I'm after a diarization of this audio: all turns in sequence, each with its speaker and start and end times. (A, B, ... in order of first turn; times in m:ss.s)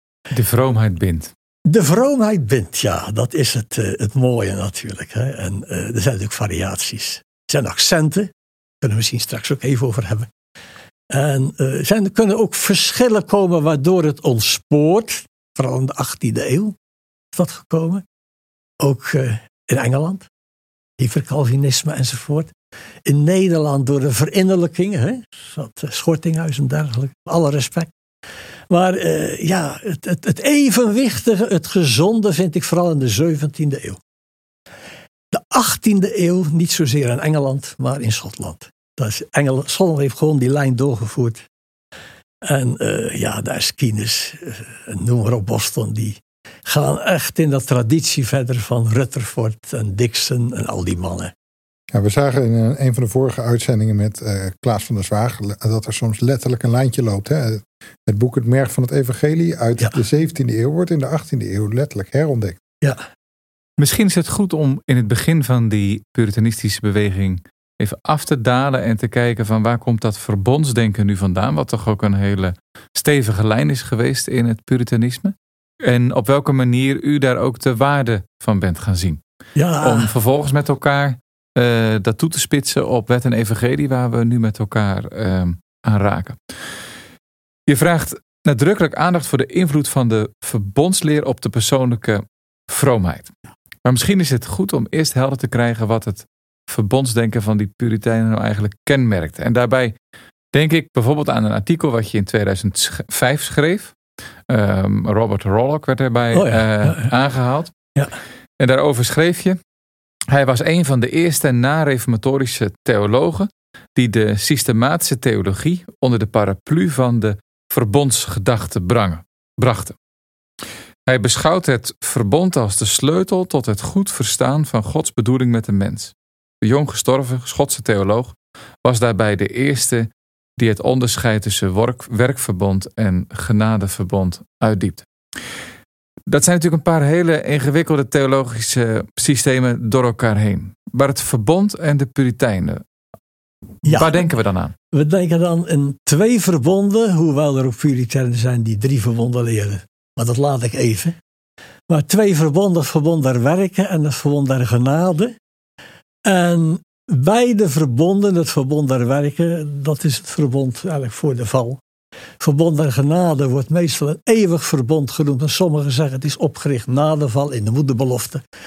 0:00.3-0:01.3 A
0:01.7-0:10.3 B
0:11.1-0:16.8 B
0:17.3-0:18.0 B
0:18.8-0:20.3 B
0:21.0-0:22.5 B
0:23.1-0:27.9 B
0:28.7-0:34.0 B
0:35.3-0:41.4 B
0:42.4-0:51.3 B
0:51.9-1:02.6 C
1:03.8-1:19.2 A
1:19.6-1:20.1 B
1:19.8-1:26.4 A
1:27.7-1:33.3 A
1:33.8-1:40.0 A
1:40.5-1:43.9 A
1:44.5-1:47.7 A
1:46.3-1:47.1 B
1:48.6-1:49.6 A
1:50.3-2:00.0 A
2:01.1-2:15.1 A
2:16.3-2:22.8 A
2:23.8-2:24.2 B
2:23.9-2:24.7 A
2:24.9-2:31.2 B
2:31.9-2:35.4 B
2:36.3-2:41.8 B
2:42.4-2:48.4 B